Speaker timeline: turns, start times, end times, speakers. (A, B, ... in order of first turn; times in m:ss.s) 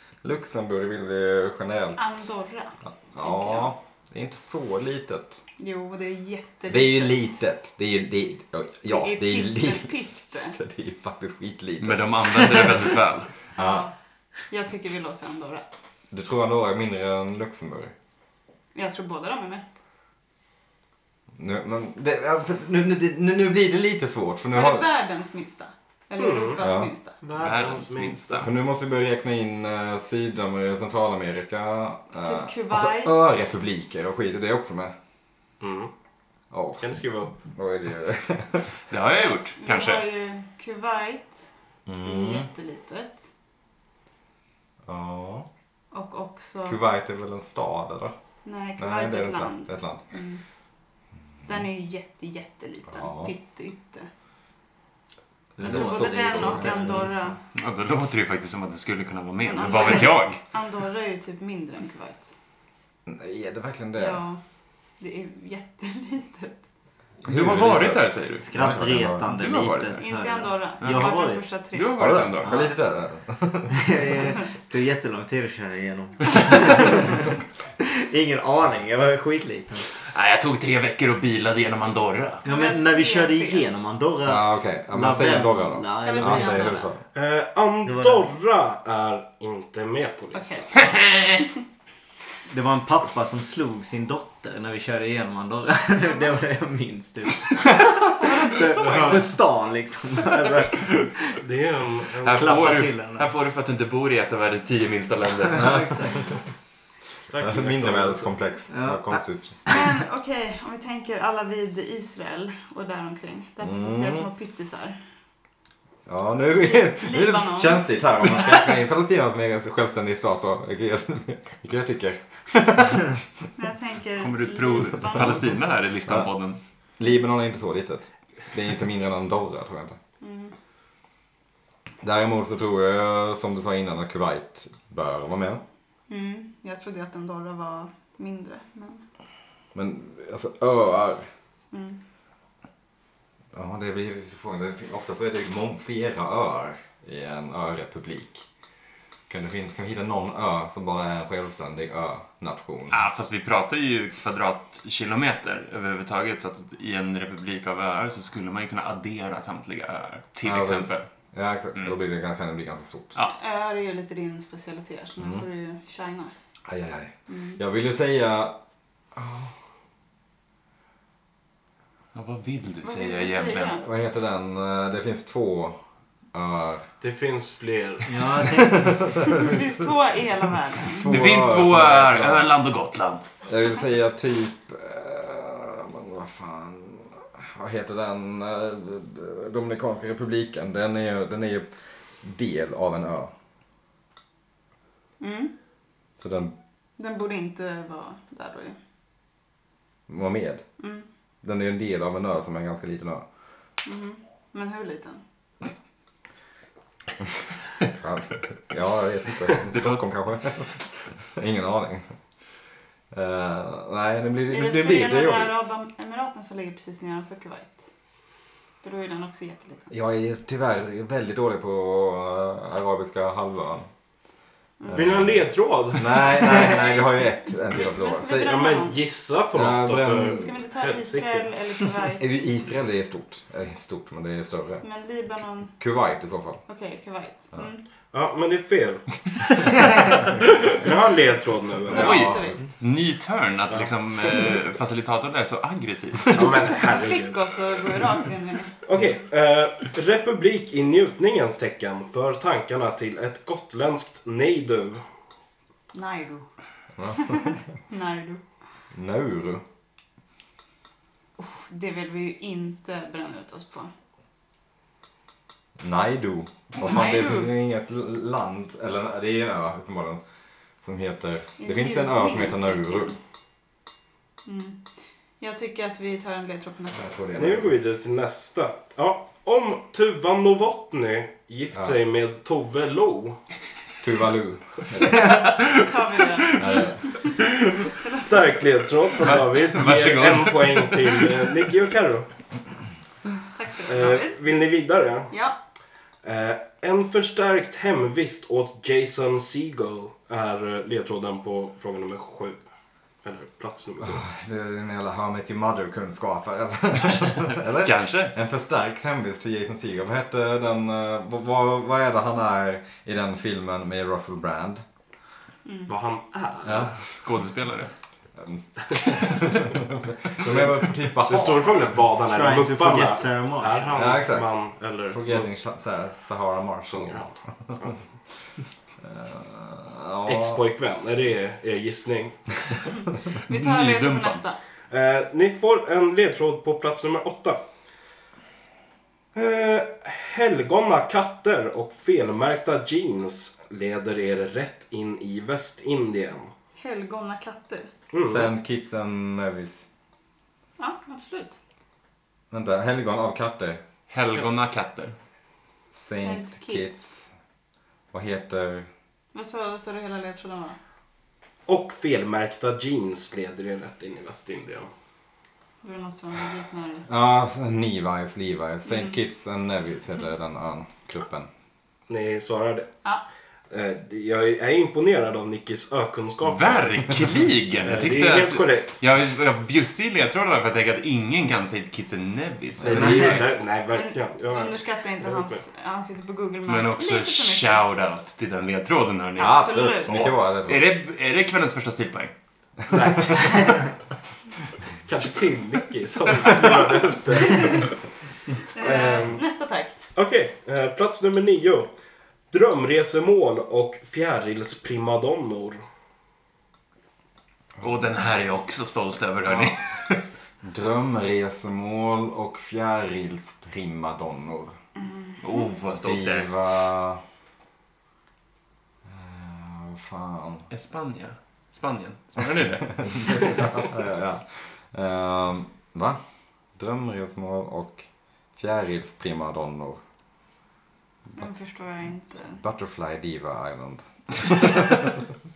0:00.2-0:02.2 A
0:02.0-0:03.7 B
0:02.8-0:05.4 A
0:05.6-0:07.4 B
0:06.7-0:12.8 A
0:08.9-0:10.5 B
0:11.8-0:13.3 C
0:13.5-0:13.9 A
0:13.6-0:13.9 B
0:14.5-0:15.6 B
0:16.1-0:17.9 A
0:18.7-0:19.6 B
0:21.4-0:24.9 A
0:24.5-0:27.2 B
0:26.2-0:26.6 D
0:26.6-0:26.9 A
0:27.2-0:28.5 D
0:27.3-0:28.5 C
0:28.4-0:34.9 A
0:32.2-0:33.5 B
0:35.6-0:35.9 D
0:36.5-0:38.7 A
0:36.8-0:37.3 D
0:38.9-0:40.0 C
0:39.6-0:41.4 B
0:41.8-0:42.5 A
0:42.0-0:43.2 B
0:44.8-0:45.5 A
0:45.9-0:46.8 B
0:46.6-0:48.1 A
0:48.4-0:50.4 B
0:48.8-0:50.0 A
0:51.4-0:54.1 B
0:52.9-0:53.3 A
0:55.6-0:57.4 E
0:55.6-0:57.0 A
0:55.6-0:57.4 B
0:57.5-1:00.4 C
0:59.4-1:02.3 B
1:03.1-1:04.2 A
1:04.0-1:04.4 B
1:05.0-1:06.6 B
1:07.2-1:09.3 A
1:07.2-1:08.5 C
1:08.4-1:11.4 E
1:09.2-1:10.1 C
1:10.0-1:12.0 B
1:10.8-1:11.1 C
1:11.7-1:12.6 C
1:12.0-1:14.1 A
1:13.7-1:17.2 E
1:17.8-1:19.9 E
1:20.0-1:22.4 C
1:22.4-1:23.7 B
1:22.4-1:26.8 E
1:24.2-1:27.0 A
1:26.0-1:26.9 B
1:27.1-1:30.8 D
1:27.8-1:28.3 E
1:30.3-1:30.7 B
1:30.8-1:31.4 C
1:32.5-1:41.4 E
1:38.4-1:39.3 D
1:38.5-1:39.3 C
1:41.4-1:42.8 D
1:42.2-1:45.9 C
1:42.3-1:43.3 E
1:45.5-1:46.3 E
1:45.6-1:46.0 A
1:47.2-1:48.3 D
1:47.4-1:49.6 A
1:48.7-1:49.9 E
1:49.7-1:55.0 B
1:53.6-1:54.3 A
1:56.0-2:03.2 A
1:56.6-1:58.6 B
2:03.6-2:05.5 B
2:04.2-2:06.6 C
2:07.0-2:10.0 A
2:10.2-2:10.5 B
2:12.0-2:15.6 A
2:16.1-2:19.0 B
2:19.7-2:21.2 A
2:21.7-2:22.0 B
2:23.5-2:28.4 A
2:29.3-2:33.0 A
2:32.9-2:41.0 C
2:40.4-2:43.1 A
2:43.2-2:46.3 B
2:45.2-2:45.4 A
2:46.6-2:48.6 A
2:47.3-2:47.6 B
2:49.1-2:49.5 A
2:52.1-2:53.8 C
2:52.8-2:53.8 B
2:53.8-2:55.8 A
2:56.3-2:56.8 A
2:57.0-2:58.6 D
2:58.1-2:59.1 E
2:58.6-2:59.8 A
2:59.2-3:01.1 B
3:00.8-3:02.5 A
3:01.1-3:03.2 C
3:03.4-3:11.7 A
3:12.2-3:13.3 A
3:15.2-3:15.5 B
3:16.2-3:16.5 A
3:17.0-3:18.8 B
3:20.1-3:20.6 A
3:20.8-3:21.1 B
3:21.4-3:23.2 A
3:23.8-3:25.2 B
3:27.9-3:32.1 A
3:29.6-3:30.0 C
3:33.1-3:35.7 A
3:34.5-3:37.9 B
3:38.8-3:39.9 B
3:39.9-3:43.9 A
3:44.8-3:45.2 B
3:44.8-3:48.6 A
3:44.9-3:46.4 D
3:46.6-3:49.0 B
3:48.4-3:51.5 D
3:49.5-3:50.5 A
3:50.3-3:52.4 B
3:52.2-3:54.8 A
3:54.8-3:55.7 B
3:55.8-3:56.6 A
3:56.7-3:57.8 B
3:58.1-3:59.7 D
4:00.7-4:02.3 D
4:01.9-4:02.6 A
4:01.9-4:02.6 B
4:01.9-4:06.6 C
4:06.3-4:07.4 D
4:06.7-4:08.7 B
4:08.8-4:15.0 D
4:15.9-4:16.5 B
4:17.0-4:17.6 A
4:17.1-4:18.4 B
4:18.9-4:19.6 A
4:21.4-4:23.9 B
4:25.8-4:30.2 A
4:26.8-4:27.5 B
4:30.8-4:33.1 A
4:31.6-4:33.2 B
4:34.4-4:34.8 B
4:35.4-4:37.1 B
4:36.9-4:37.7 A
4:37.4-4:43.4 D
4:44.0-4:45.5 A
4:45.1-4:47.8 C
4:45.7-4:47.4 B
4:46.6-4:47.1 A
4:48.0-4:48.4 B
4:48.1-4:52.3 D
4:49.2-4:51.6 C
4:53.5-4:54.4 B
4:53.9-4:55.3 D
4:55.3-4:55.6 B
4:56.2-5:02.6 D
5:03.2-5:04.2 D
5:04.0-5:14.8 A
5:07.8-5:08.3 C
5:15.6-5:15.9 B
5:15.9-5:17.0 D
5:16.6-5:16.9 A
5:17.1-5:17.9 C
5:18.4-5:22.0 A
5:20.4-5:25.4 D
5:22.2-5:23.9 E
5:23.9-5:27.9 A
5:26.9-5:28.0 D
5:29.0-5:30.6 A
5:30.2-5:32.5 D
5:33.3-5:34.6 B
5:33.5-5:34.4 C
5:34.9-5:37.6 D
5:39.3-5:46.5 D
5:46.8-5:47.9 B
5:48.1-5:48.5 D
5:48.2-5:49.9 A
5:50.8-5:51.6 B
5:52.5-5:53.8 A
5:54.1-5:55.1 C
5:55.9-5:57.3 A
5:56.2-5:57.0 B
5:58.1-5:58.9 A
5:59.3-6:00.8 B
6:01.7-6:04.9 D
6:05.8-6:07.1 B
6:07.1-6:11.5 A
6:08.9-6:09.1 B
6:12.1-6:12.9 D
6:13.7-6:16.9 D
6:16.4-6:23.4 C
6:17.8-6:18.9 D
6:22.8-6:23.4 A
6:22.8-6:25.6 D
6:22.8-6:23.4 E
6:23.9-6:27.8 B
6:26.7-6:32.3 C
6:29.4-6:30.3 B
6:29.4-6:30.9 A
6:32.9-6:33.9 D
6:35.0-6:38.0 D
6:38.7-6:39.9 B
6:38.8-6:39.4 D
6:40.1-6:41.9 D
6:42.5-6:45.8 D
6:47.8-6:50.2 C
6:50.6-6:54.7 A
6:55.4-6:56.5 C
6:56.0-6:57.2 A
6:59.0-7:00.7 A
7:00.7-7:03.8 C
7:03.0-7:06.2 A
7:06.8-7:10.0 A
7:11.4-7:12.6 B
7:12.6-7:15.1 A